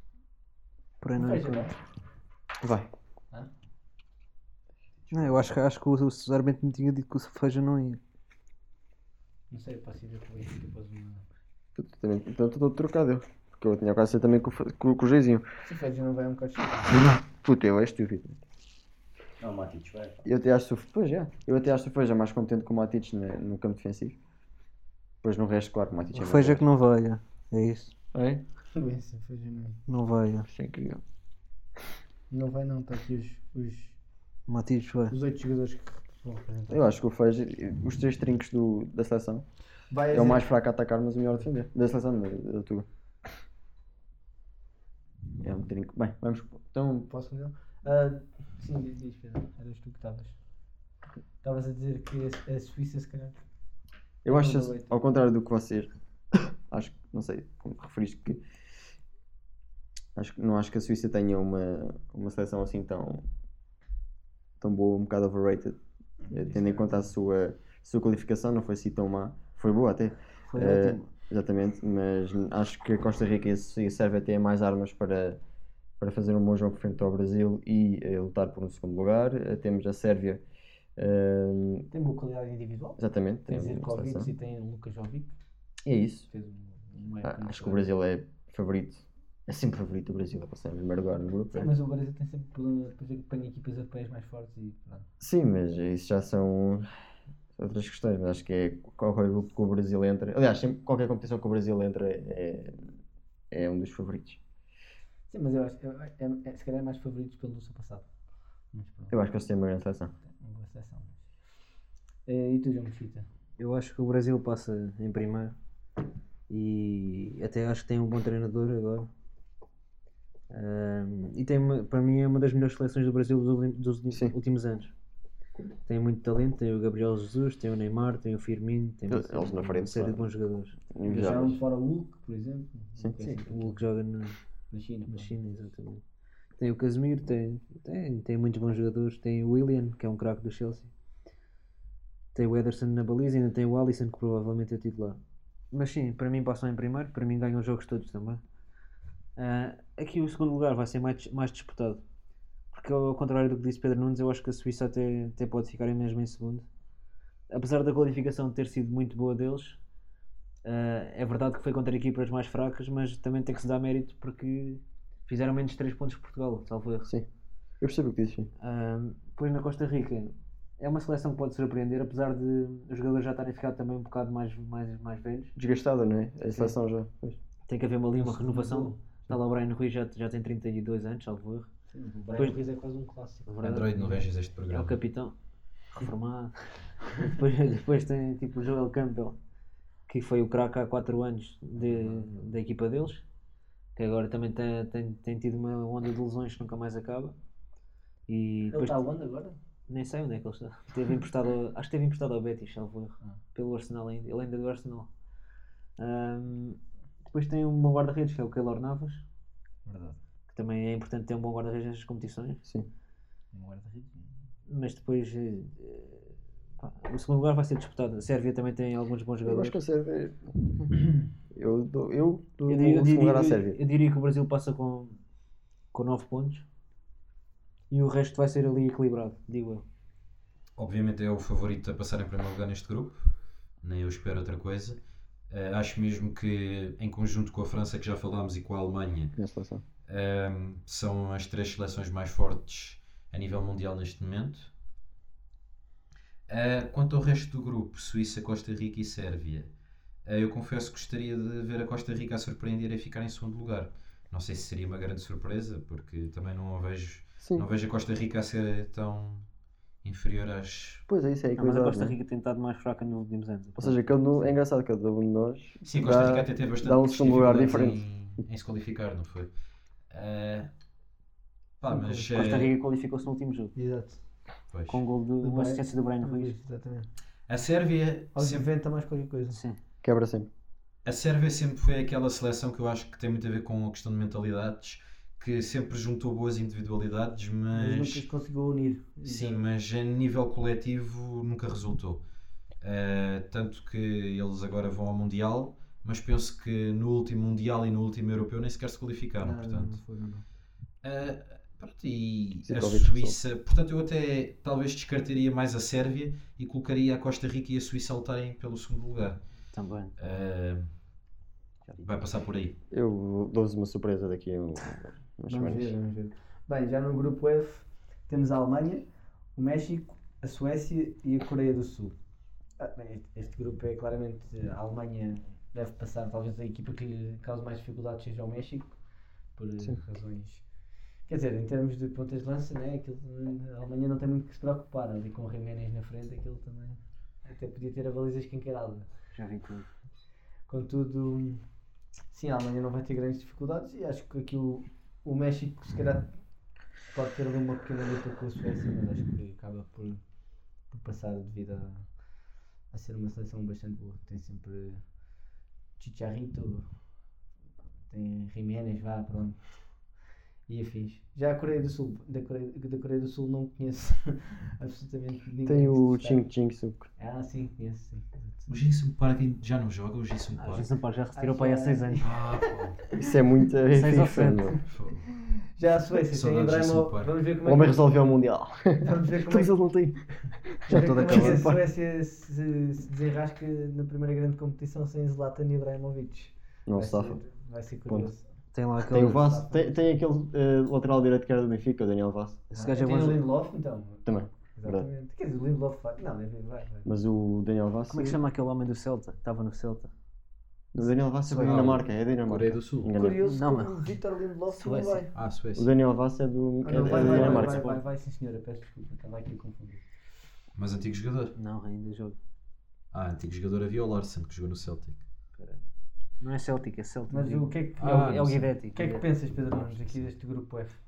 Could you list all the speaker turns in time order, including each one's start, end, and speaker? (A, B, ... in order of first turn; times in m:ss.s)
0:01.0-0:01.7 A
0:01.2-0:01.8 B
0:02.6-0:02.9 C
0:05.0-0:05.5 D
0:05.1-0:08.0 A
0:09.5-0:11.2 B
0:11.8-0:15.4 C
0:15.6-0:17.0 B
0:17.0-0:18.4 C
0:19.4-0:20.2 D
0:20.2-0:24.2 C
0:25.2-0:26.6 C
0:26.1-0:27.9 A
0:28.1-0:28.4 C
0:28.7-0:29.8 B
0:29.9-0:30.5 A
0:30.5-0:31.0 C
0:32.3-0:34.0 B
0:34.5-0:35.2 A
0:35.1-0:36.9 B
0:36.7-0:39.4 C
0:39.9-0:40.5 B
0:40.1-0:42.9 C
0:45.4-0:47.1 C
0:47.1-0:50.4 B
0:51.4-0:53.4 B
0:54.2-0:55.9 C
0:54.3-0:55.0 B
0:56.7-0:58.4 C
1:00.2-1:03.2 C
1:04.6-1:05.8 C
1:06.2-1:07.0 B
1:06.3-1:15.4 C
1:10.5-1:11.1 A
1:16.0-1:20.4 C
1:21.0-1:21.9 C
1:21.9-1:25.3 B
1:23.0-1:24.3 C
1:25.8-1:26.3 C
1:26.3-1:27.9 B
1:27.2-1:31.7 C
1:31.5-1:35.0 B
1:35.2-1:36.9 C
1:37.6-1:42.9 C
1:43.5-1:44.4 C
1:45.3-1:48.1 B
1:48.7-1:49.2 B
1:49.1-1:50.1 C
1:50.3-1:51.2 B
1:52.2-1:53.2 B
1:53.6-1:55.5 A
1:56.5-1:59.1 A
2:00.5-2:04.9 A
2:05.8-2:10.8 A
2:09.1-2:10.2 C
2:10.9-2:11.6 C
2:11.0-2:13.8 B
2:13.0-2:13.4 C
2:13.4-2:14.3 A
2:14.7-2:15.4 B
2:15.1-2:16.0 A
2:16.6-2:20.9 A
2:22.3-2:25.2 A
2:25.7-2:28.4 A
2:29.4-2:32.0 A
2:32.7-2:36.6 A
2:37.5-2:39.8 A
2:40.6-2:47.1 A
2:47.8-2:48.5 C
2:48.6-2:55.5 A
2:55.6-2:57.4 C
2:57.7-3:01.7 A
2:58.2-2:59.0 B
3:01.9-3:03.6 B
3:03.5-3:04.2 A
3:03.6-3:05.0 D
3:04.7-3:05.3 A
3:05.9-3:06.5 A
3:07.2-3:09.4 A
3:10.1-3:13.2 A
3:14.0-3:17.3 A
3:18.3-3:19.0 A
3:18.7-3:19.6 B
3:19.9-3:25.1 A
3:26.0-3:29.2 A
3:29.8-3:30.2 B
3:30.5-3:32.6 A
3:33.5-3:34.3 B
3:34.7-3:39.8 A
3:39.4-3:43.8 C
3:42.7-3:45.2 A
3:45.9-3:46.6 A
3:47.9-3:49.8 A
3:50.8-3:59.3 D
3:59.4-3:59.8 C
4:00.0-4:04.7 D
4:06.5-4:09.7 D
4:10.2-4:19.5 D
4:17.4-4:17.6 C
4:20.0-4:21.0 D
4:21.1-4:22.1 C
4:21.6-4:24.0 A
4:23.8-4:28.0 C
4:25.8-4:29.5 D
4:30.1-4:30.7 D
4:31.8-4:32.7 D
4:31.8-4:32.3 B
4:32.3-4:33.7 A
4:33.7-4:34.2 B
4:34.7-4:35.0 D
4:34.9-4:36.6 A
4:35.4-4:37.1 B
4:37.5-4:38.7 D
4:38.3-4:39.6 B
4:39.5-4:39.8 A
4:40.0-4:40.5 C
4:41.0-4:48.3 D
4:47.7-4:49.6 B
4:49.2-4:52.2 D
4:52.8-5:00.0 D
4:59.4-5:00.4 B
5:01.0-5:09.4 D
5:02.6-5:03.4 C
5:09.7-5:10.1 A
5:10.2-5:10.9 D
5:12.0-5:12.8 D
5:12.9-5:16.0 C
5:15.5-5:22.1 B
5:22.8-5:29.0 B
5:29.6-5:30.6 B
5:31.3-5:39.1 B
5:39.3-5:39.9 A
5:40.7-5:41.6 B
5:42.3-5:46.3 B
5:47.1-5:50.2 B
5:50.9-5:52.1 B
5:52.9-5:55.0 B
5:56.0-5:56.9 B
5:58.1-5:59.6 B
6:00.7-6:06.5 B
6:05.6-6:07.1 C
6:07.2-6:08.8 B
6:08.7-6:10.9 D
6:10.6-6:12.3 A
6:11.3-6:12.7 B
6:12.2-6:13.0 D
6:13.2-6:14.8 C
6:13.9-6:14.7 A
6:14.8-6:15.3 D
6:15.6-6:18.1 B
6:16.3-6:17.3 D
6:17.6-6:21.8 C
6:19.0-6:19.7 B
6:20.9-6:28.5 B
6:20.9-6:21.6 A
6:26.9-6:27.4 C
6:28.7-6:29.5 A
6:29.0-6:32.6 C
6:29.3-6:30.2 B
6:32.7-6:33.4 A
6:32.8-6:37.1 B
6:34.2-6:35.1 C
6:37.0-6:38.4 C
6:38.1-6:40.1 A
6:40.9-6:43.4 C
6:41.5-6:43.1 D
6:43.1-6:45.3 B
6:43.4-6:44.1 A
6:44.7-6:45.3 A
6:45.3-6:45.9 D
6:45.7-6:47.8 C
6:46.8-6:50.0 B
6:46.9-6:48.0 A
6:50.7-6:51.5 D
6:51.6-6:52.4 A
6:53.1-6:55.2 D
6:56.4-6:57.7 A
6:57.3-7:01.0 B
6:58.0-6:58.6 D
6:58.2-6:59.2 A
6:59.5-7:00.3 D